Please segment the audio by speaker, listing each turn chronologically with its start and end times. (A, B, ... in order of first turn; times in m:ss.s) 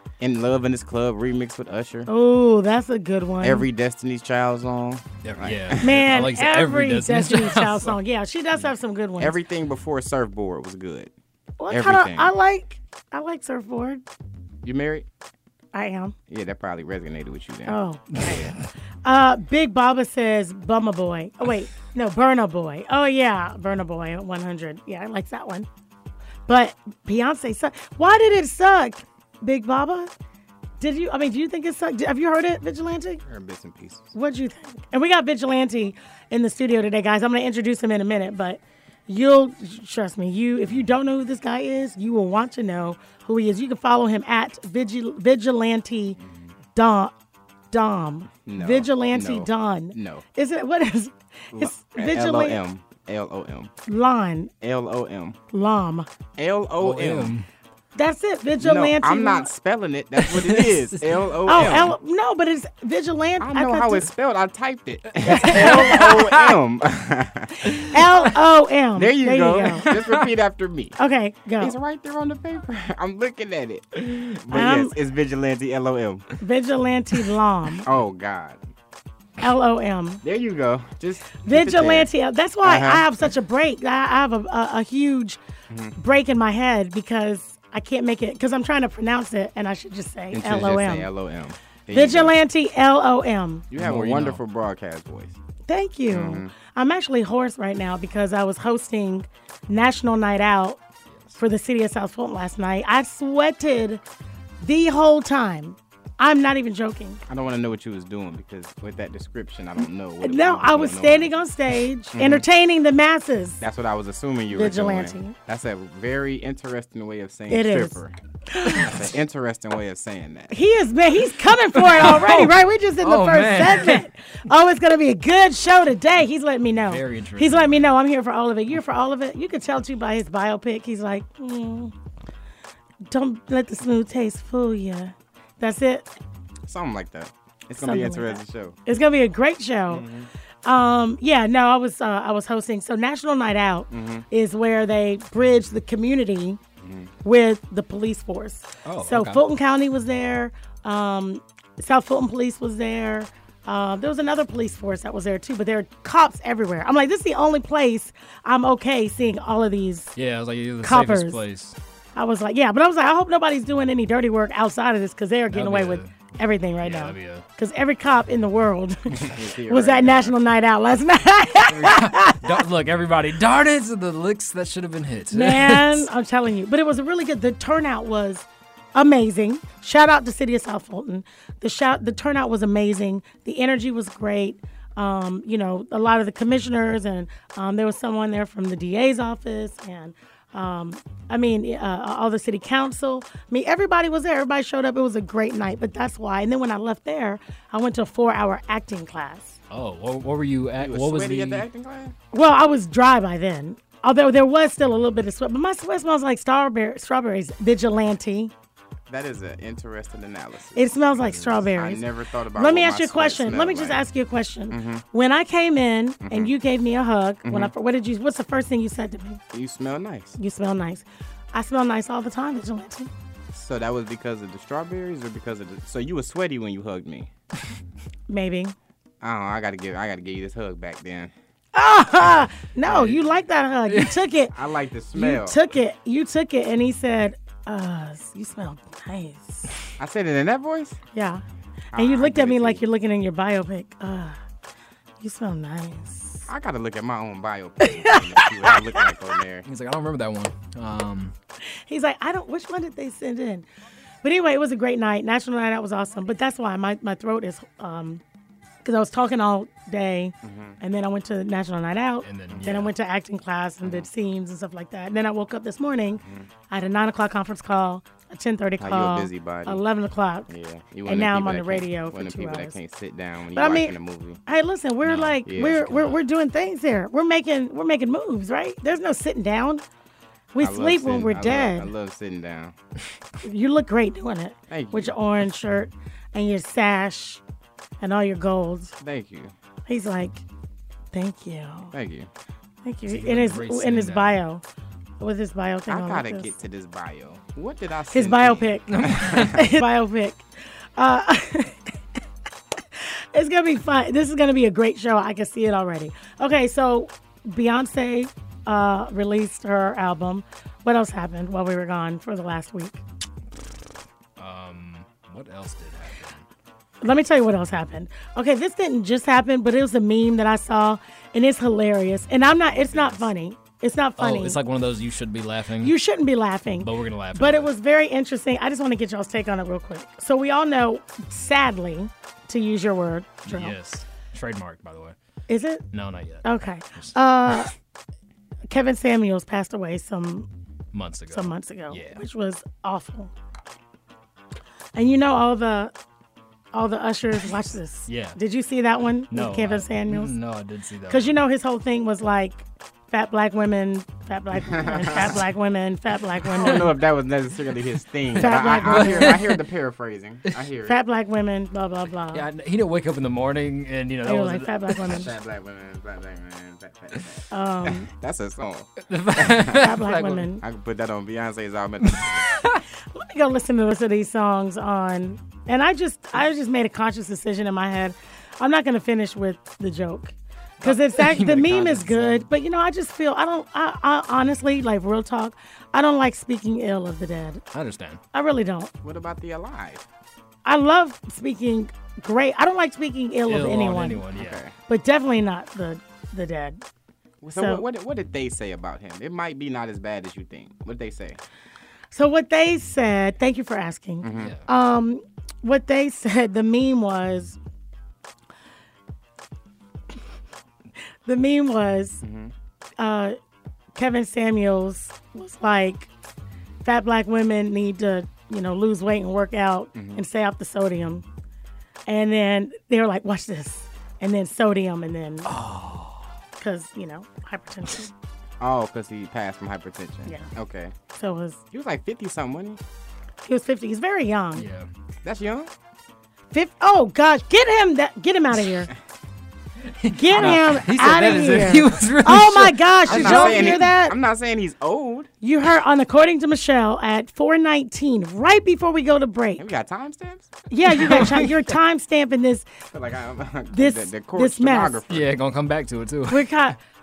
0:00.2-0:02.1 A
0:02.1-0:03.7 B
0:03.4-0:06.0 A
0:05.2-0:08.0 C
0:05.8-0:09.4 B
0:09.2-0:11.1 A
0:11.6-0:14.0 B
0:11.7-0:12.3 A
0:14.6-0:15.0 A
0:15.7-0:16.1 B
0:16.3-0:18.5 A
0:17.6-0:18.5 B
0:18.1-0:18.6 C
0:19.0-0:25.7 B
0:26.5-0:30.1 B
0:30.8-0:33.2 B
0:33.2-0:34.1 A
0:34.1-0:46.2 B
0:46.2-0:46.5 A
0:46.7-0:47.1 B
0:47.7-0:52.6 B
0:48.4-0:50.2 A
0:51.5-0:53.7 A
0:53.9-0:54.5 B
0:54.6-0:55.4 A
0:55.5-0:56.1 B
0:56.4-0:57.4 A
0:56.8-0:57.4 C
0:57.9-0:59.5 B
0:58.6-1:01.9 A
1:00.2-1:01.8 C
1:01.5-1:04.1 B
1:03.4-1:07.9 A
1:05.2-1:06.5 C
1:05.2-1:06.2 B
1:07.6-1:09.9 B
1:08.9-1:11.0 A
1:09.9-1:10.2 C
1:11.0-1:11.7 B
1:11.6-1:16.3 A
1:14.5-1:14.9 B
1:16.4-1:17.9 B
1:17.8-1:18.6 A
1:19.4-1:20.2 B
1:20.2-1:22.1 A
1:21.4-1:25.4 B
1:22.6-1:23.1 A
1:25.7-1:26.0 A
1:26.0-1:31.1 B
1:30.3-1:32.4 A
1:31.9-1:33.7 B
1:33.7-1:35.4 A
1:33.7-1:34.4 C
1:35.7-1:40.8 B
1:36.1-1:36.5 A
1:41.1-1:41.4 C
1:41.4-1:44.0 B
1:44.6-1:47.2 B
1:47.3-1:51.4 A
1:50.2-1:53.6 B
1:52.1-1:52.4 A
1:53.6-2:00.5 A
1:54.5-1:55.4 B
1:57.5-1:59.1 B
2:00.5-2:11.9 B
2:01.7-2:04.0 C
2:06.9-2:07.9 C
2:13.1-2:16.1 B
2:16.6-2:18.8 A
2:17.8-2:20.0 B
2:19.9-2:20.3 A
2:20.6-2:26.6 B
2:23.9-2:24.2 A
2:26.8-2:27.1 A
2:27.2-2:40.1 B
2:28.8-2:29.4 C
2:40.2-2:41.8 C
2:40.8-2:41.4 B
2:42.2-2:52.6 B
2:45.5-2:47.4 C
2:49.2-2:50.4 A
2:51.7-2:56.1 C
2:55.3-3:19.6 B
3:19.7-3:21.6 C
3:20.8-3:22.1 A
3:22.3-3:28.5 B
3:29.1-3:34.0 A
3:30.7-3:39.4 B
3:34.7-3:35.0 A
3:36.2-3:36.5 A
3:37.4-3:37.7 A
3:39.5-3:40.4 A
3:40.4-3:43.1 B
3:43.5-3:47.3 A
3:48.3-3:48.7 B
3:49.2-3:51.3 A
3:51.7-3:54.5 B
3:52.8-3:53.2 C
3:53.9-3:54.2 C
3:54.5-3:55.7 A
3:55.1-3:59.7 B
4:00.0-4:01.0 A
4:01.1-4:01.4 B
4:01.9-4:02.8 A
4:01.9-4:04.4 B
4:05.2-4:06.5 B
4:06.5-4:09.7 A
4:07.8-4:08.8 B
4:09.6-4:11.3 C
4:11.6-4:13.6 B
4:14.2-4:18.2 B
4:18.8-4:30.5 B
4:20.4-4:20.8 A
4:22.2-4:22.9 C
4:23.8-4:24.1 A
4:26.2-4:26.5 A
4:28.8-4:29.8 A
4:30.5-4:34.4 A
4:31.0-4:32.8 B
4:33.5-4:33.9 B
4:34.4-4:39.8 B
4:35.0-4:36.2 C
4:35.4-4:35.9 A
4:40.5-4:41.9 B
4:40.6-4:42.7 A
4:43.4-4:47.4 B
4:44.7-4:45.2 A
4:48.0-4:48.9 B
4:49.0-4:49.5 A
4:49.9-4:50.4 B
4:51.1-4:51.9 B
4:51.9-4:52.3 A
4:52.8-4:54.6 B
4:53.1-4:54.4 C
4:55.2-4:56.5 B
4:55.9-4:59.6 A
4:58.1-5:00.4 B
4:58.9-4:59.7 C
5:01.0-5:02.0 B
5:03.0-5:13.0 B
5:14.4-5:16.4 C
5:17.0-5:24.6 B
5:24.2-5:26.0 C
5:25.8-5:33.8 B
5:26.8-5:27.7 C
5:33.4-5:35.2 C
5:35.5-5:35.8 B
5:35.9-5:37.1 C
5:36.4-5:37.7 B
5:38.7-5:40.5 B
5:40.9-5:42.2 C
5:41.3-5:43.3 B
5:45.0-5:45.9 B
5:46.7-5:50.3 B
5:48.1-5:48.4 C
5:49.3-5:51.3 C
5:51.1-5:56.8 B
5:54.6-5:55.4 A
5:56.5-6:01.0 A
5:58.4-5:59.4 B
5:58.4-5:59.6 C
6:00.8-6:02.4 B
6:02.3-6:05.2 C
6:04.2-6:05.3 B
6:05.0-6:10.0 A
6:07.5-6:08.1 B
6:09.1-6:10.5 C
6:09.7-6:10.6 B
6:10.6-6:12.5 A
6:12.1-6:12.8 C
6:13.1-6:27.6 B
6:20.8-6:22.5 C
6:27.7-6:28.2 C
6:28.3-6:28.9 B
6:29.0-6:30.0 A
6:30.6-6:34.2 B
6:33.5-6:34.6 C
6:34.3-6:34.7 A
6:34.9-6:36.8 B
6:37.4-6:41.4 A
6:37.5-6:37.8 B
6:42.1-6:47.6 B
6:44.2-6:44.5 A
6:44.4-6:44.6 C
6:51.2-6:52.2 B
6:52.2-6:52.5 A
6:53.0-6:53.4 B
6:53.9-6:56.1 B
6:56.8-7:01.2 B
6:59.9-7:00.2 A
7:02.1-7:05.5 B
7:05.4-7:06.2 C
7:06.6-7:08.1 B
7:08.6-7:10.9 A
7:11.1-7:11.6 B
7:11.7-7:12.8 A
7:13.4-7:14.7 B
7:14.5-7:14.9 C
7:15.2-7:15.7 A
7:16.5-7:18.9 B
7:20.0-7:23.8 C
7:20.1-7:24.2 B
7:23.1-7:25.3 A
7:25.4-7:29.7 B
7:29.6-7:30.5 A
7:30.7-7:32.6 B
7:30.9-7:31.6 C
7:32.9-7:35.3 A
7:33.7-7:35.0 B
7:35.1-7:36.6 C
7:36.3-7:36.8 B